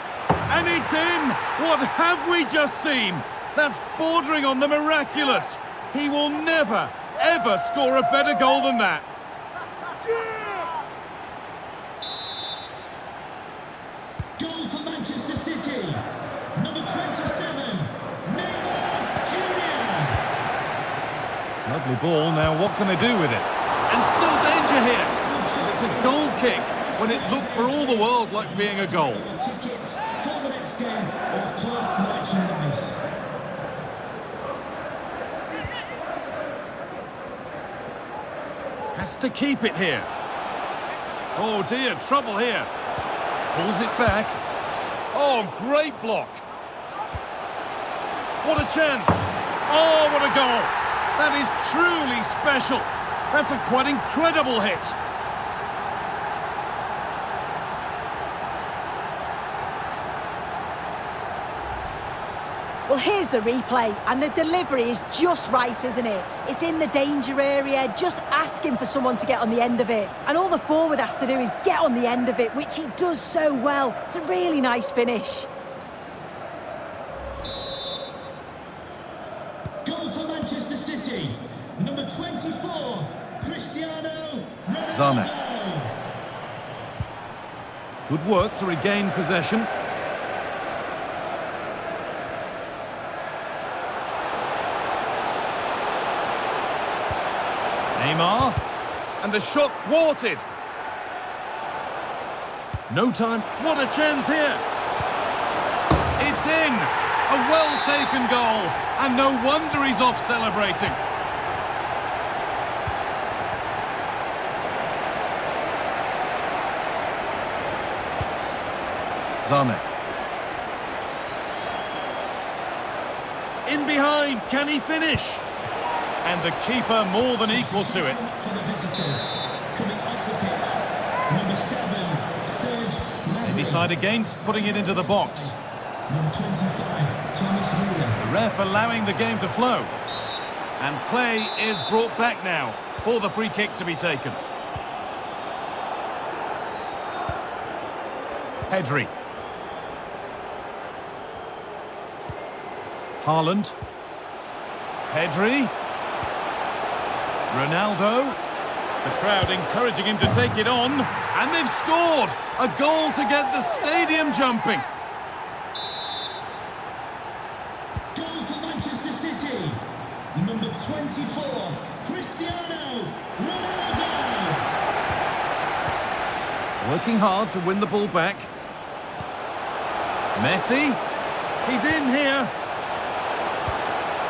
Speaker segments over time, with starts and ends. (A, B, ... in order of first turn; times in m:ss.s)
0:00.5-0:09.0 A
0:14.4-0:20.2 B
0:21.6-0:29.2 A
0:24.3-0:33.0 B
0:38.9-0:40.1 A
0:41.4-0:42.7 A
0:43.5-0:44.4 A
0:45.1-0:46.4 A
0:48.4-0:55.0 A
1:02.9-1:15.5 C
1:19.8-1:26.0 B
1:24.9-1:25.3 A
1:28.1-1:29.7 A
1:38.0-1:38.6 A
1:39.2-1:40.4 A
1:42.9-1:44.6 A
1:46.2-1:51.0 A
1:59.4-1:59.8 A
2:03.6-2:05.4 A
2:06.2-2:08.2 A
2:07.4-2:13.9 B
2:13.4-2:15.6 A
2:14.4-2:15.5 B
2:16.1-2:18.2 B
2:18.2-2:19.9 A
2:20.8-2:24.4 A
2:28.7-2:29.1 A
2:33.2-2:33.7 A
2:35.1-2:35.7 A
2:37.5-2:38.4 A
2:39.0-2:44.9 A
2:48.1-2:54.7 B
2:56.8-2:58.5 A
3:00.4-3:01.0 A
3:01.6-3:02.5 A